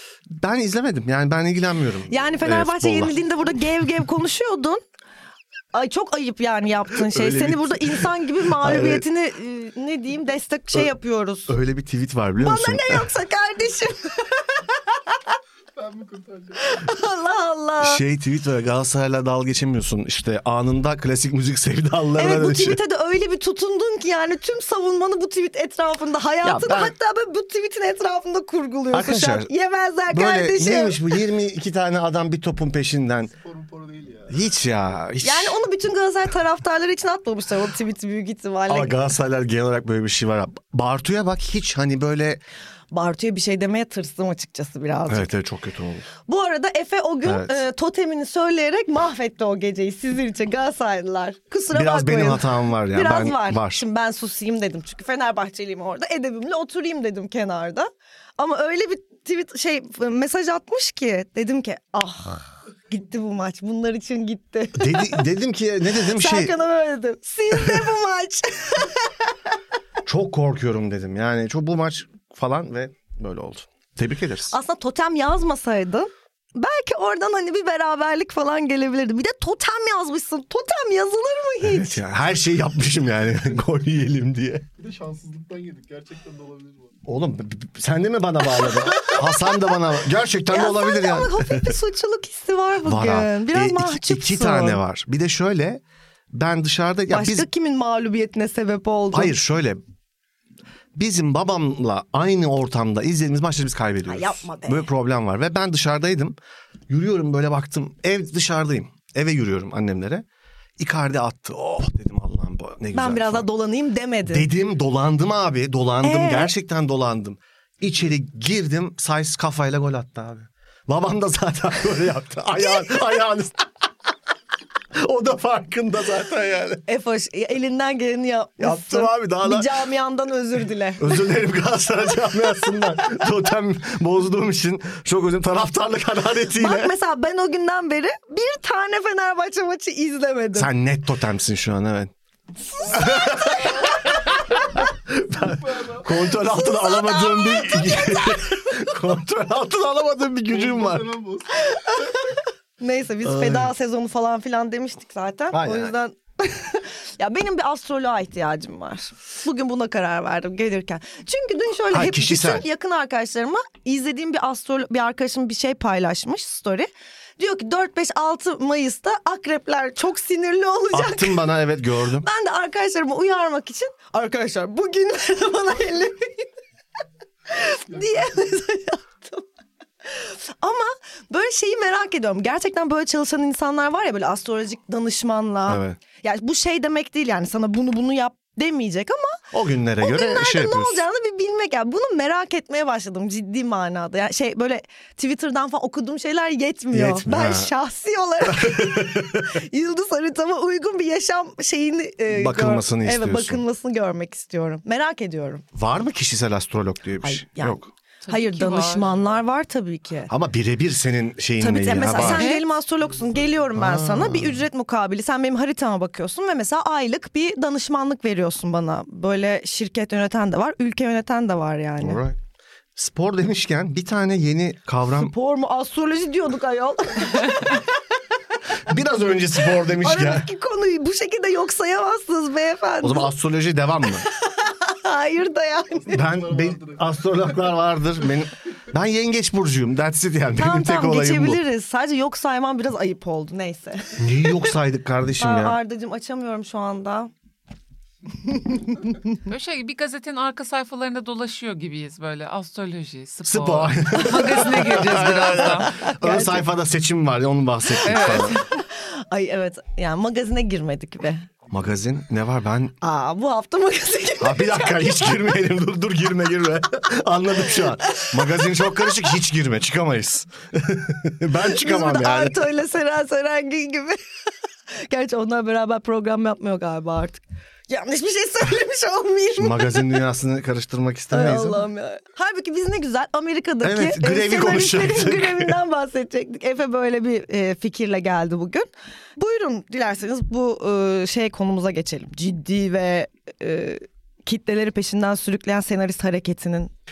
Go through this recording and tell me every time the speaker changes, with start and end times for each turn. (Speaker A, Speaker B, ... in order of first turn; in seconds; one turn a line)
Speaker A: 0.3-3.2
Speaker B: 2.1-4.8
Speaker B: 5.7-11.6
Speaker A: 7.0-9.0
Speaker A: 11.5-13.1
Speaker B: 12.4-14.6
Speaker C: 15.8-16.6
Speaker B: 16.6-18.0
Speaker A: 17.8-22.8
Speaker B: 22.2-31.1
Speaker A: 26.4-26.9
Speaker A: 28.9-29.5
Speaker A: 30.1-33.3
Speaker C: 33.3-34.4
Speaker A: 34.3-35.6
Speaker B: 35.2-38.9
Speaker A: 38.7-42.4
Speaker B: 42.9-45.3
Speaker A: 45.1-46.1
Speaker B: 46.2-65.2
Speaker A: 47.2-47.6
Speaker A: 51.7-53.8
Speaker A: 64.7-66.5
Speaker B: 66.0-69.3
Speaker A: 67.5-67.9
Speaker A: 70.0-74.5
Speaker B: 74.5-82.0
Speaker A: 81.6-84.7
Speaker C: 84.8-87.0
Speaker A: 87.0-91.8
Speaker B: 88.5-89.6
Speaker B: 90.5-94.8
Speaker A: 92.8-95.8
Speaker A: 96.3-97.5
Speaker B: 97.1-99.3
Speaker A: 99.1-99.8
Speaker A: 100.9-106.3
Speaker B: 104.1-104.9
Speaker A: 106.9-110.2
Speaker A: 110.8-113.5
Speaker B: 112.9-114.5
Speaker A: 114.3-123.7
Speaker B: 116.0-116.5
Speaker A: 124.9-126.8
Speaker B: 126.9-131.2
Speaker A: 128.6-129.7
Speaker A: 131.0-136.9
Speaker B: 136.6-140.7
Speaker A: 140.5-142.1
Speaker B: 142.8-143.9
Speaker C: 142.8-144.7
Speaker A: 142.9-143.7
Speaker A: 144.6-151.1
Speaker C: 145.4-146.1
Speaker B: 146.4-148.5
Speaker C: 150.5-152.1
Speaker B: 151.7-152.2
Speaker B: 152.8-171.4
Speaker A: 153.2-153.7
Speaker A: 155.5-155.9
Speaker A: 161.9-162.7
Speaker A: 170.9-172.3
Speaker B: 172.2-176.4
Speaker B: 177.5-179.4
Speaker C: 177.9-178.2
Speaker B: 180.1-189.4
Speaker A: 185.7-186.0
Speaker A: 189.5-191.0
Speaker B: 190.0-205.6
Speaker A: 196.9-197.7
Speaker A: 198.4-199.6
Speaker A: 202.3-203.6
Speaker A: 205.7-207.9
Speaker B: 207.2-210.3
Speaker D: 208.2-209.2
Speaker A: 210.3-212.5
Speaker B: 211.6-222.2
Speaker D: 212.2-212.6
Speaker C: 212.9-213.9
Speaker A: 213.7-214.6
Speaker A: 222.0-222.4
Speaker A: 222.9-225.3
Speaker B: 225.1-227.8
Speaker A: 228.8-230.5
Speaker B: 229.9-233.3
Speaker A: 233.0-234.2
Speaker B: 234.2-236.1
Speaker C: 236.0-237.8
Speaker A: 236.1-241.6
Speaker B: 240.6-244.7
Speaker A: 244.2-245.8
Speaker B: 245.4-247.3
Speaker B: 248.4-249.3
Speaker D: 249.4-255.9
Speaker A: 253.4-258.6
Speaker B: 255.7-256.6
Speaker D: 258.0-258.6
Speaker B: 258.1-261.5
Speaker A: 261.7-262.9
Speaker B: 263.0-265.3
Speaker A: 264.4-272.6
Speaker B: 268.0-269.2
Speaker B: 271.6-274.2
Speaker B: 275.0-280.1
Speaker A: 279.6-281.8
Speaker B: 281.3-296.9
Speaker A: 283.8-285.8